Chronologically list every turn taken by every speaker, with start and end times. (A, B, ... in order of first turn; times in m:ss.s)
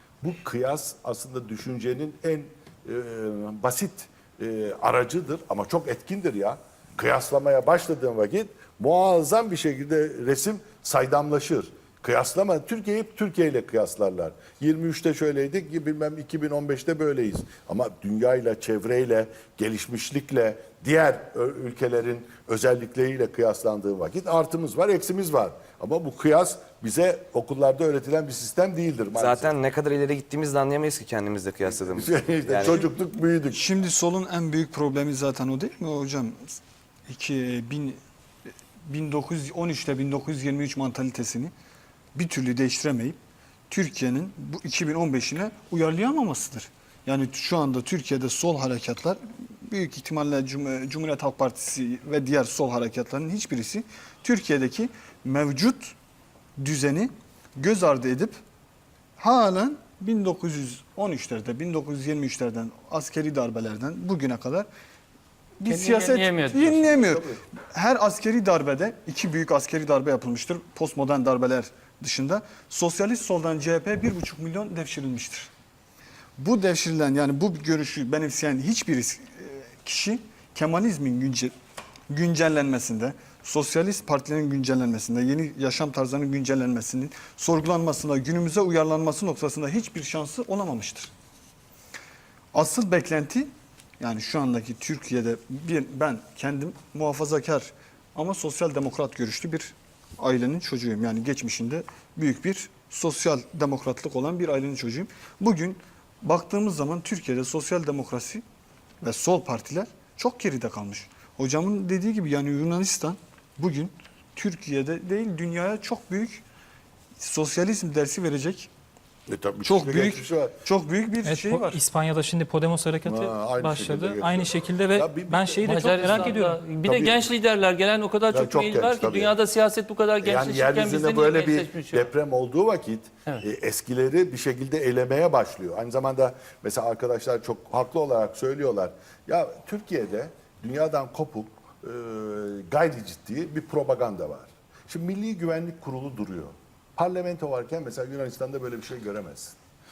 0:00.2-0:29.5 A
0:29.1-0:32.8 B
0:32.0-0:33.6 A
0:33.5-0:38.0 C
0:38.8-0:41.5 C
0:42.1-0:55.9 C
0:56.6-0:58.4 C
0:59.2-1:04.7 C
1:05.6-1:15.5 C
1:05.7-1:06.9 D
1:16.4-1:21.5 C
1:22.1-1:31.1 C
1:32.5-1:48.4 C
1:49.0-1:56.4 C
1:57.2-1:58.7 C
1:59.3-2:00.5 A
1:59.6-2:01.8 C
2:01.2-2:06.6 E
2:03.0-2:07.2 A
2:05.6-2:12.1 D
2:08.3-2:09.3 A
2:10.2-2:29.6 A